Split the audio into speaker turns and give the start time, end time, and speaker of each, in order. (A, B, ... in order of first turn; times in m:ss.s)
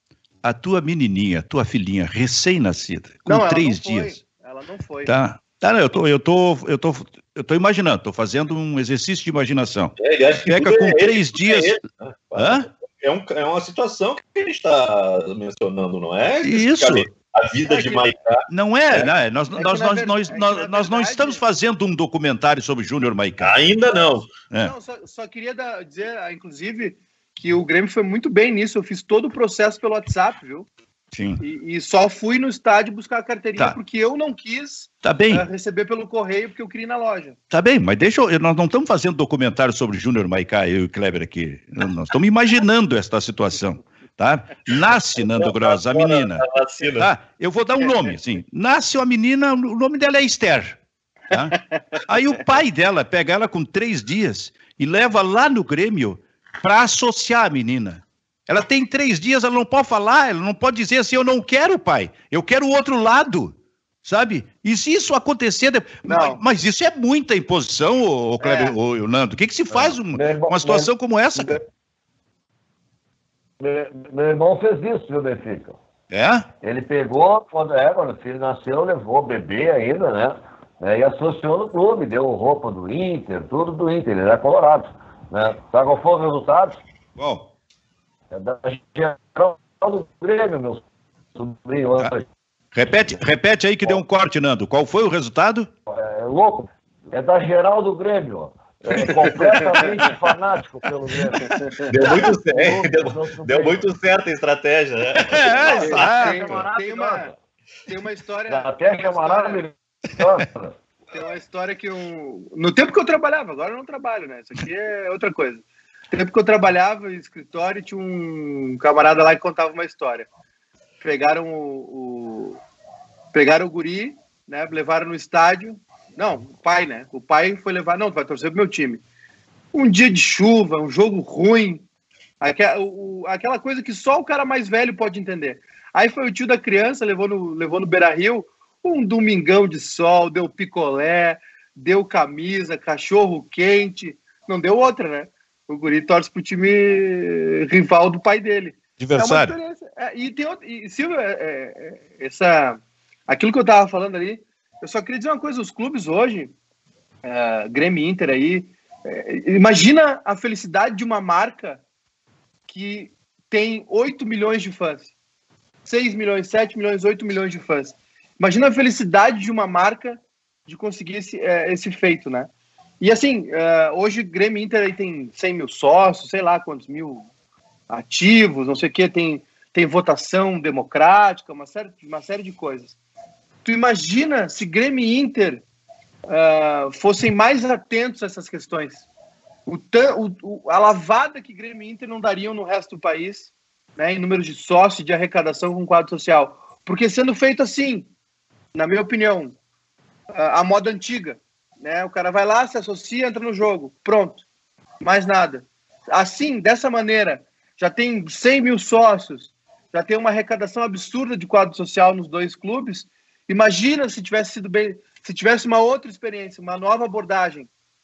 0:00.4-0:04.2 A
0:03.3-0:05.1 B
0:05.1-0:10.0 A
0:10.0-0:19.1 C
0:10.5-0:11.8 A
0:12.4-0:12.7 A
0:16.4-0:17.1 A
0:17.7-0:18.1 B
0:18.5-0:23.6 A
0:19.6-0:21.4 B
0:23.4-0:24.3 C
0:24.6-0:30.7 B
0:31.1-0:31.4 A
0:31.4-0:37.4 B
0:35.0-0:35.5 A
0:37.5-0:46.4 A
0:44.7-0:47.1 C
0:47.0-0:50.8 A
0:51.3-1:11.6 A
1:06.0-1:06.4 B
1:08.4-1:08.8 B
1:09.7-1:11.6 D
1:13.6-1:15.8 D
1:16.1-1:16.5 A
1:16.6-1:26.8 D
1:27.2-1:27.5 A
1:28.3-1:32.3 D
1:32.7-1:35.7 A
1:35.9-1:43.9 D
1:41.9-1:46.1 C
1:45.2-1:46.6 A
1:45.5-1:47.3 B
1:45.5-1:47.4 D
1:47.9-1:49.7 B
1:48.5-1:50.8 D
1:51.1-2:00.3 B
2:01.0-2:02.6 B
2:03.3-2:09.0 B
2:09.7-2:11.8 B
2:12.4-2:36.5 B
2:29.0-2:29.6 A
2:37.2-2:41.8 B
2:42.7-2:45.1 B
2:45.8-2:57.3 B
2:57.9-3:03.0 B
3:03.6-3:05.6 B
3:06.3-3:09.0 B
3:09.7-3:18.1 B
3:18.7-3:19.6 B
3:20.3-3:24.4 B
3:25.0-3:37.7 B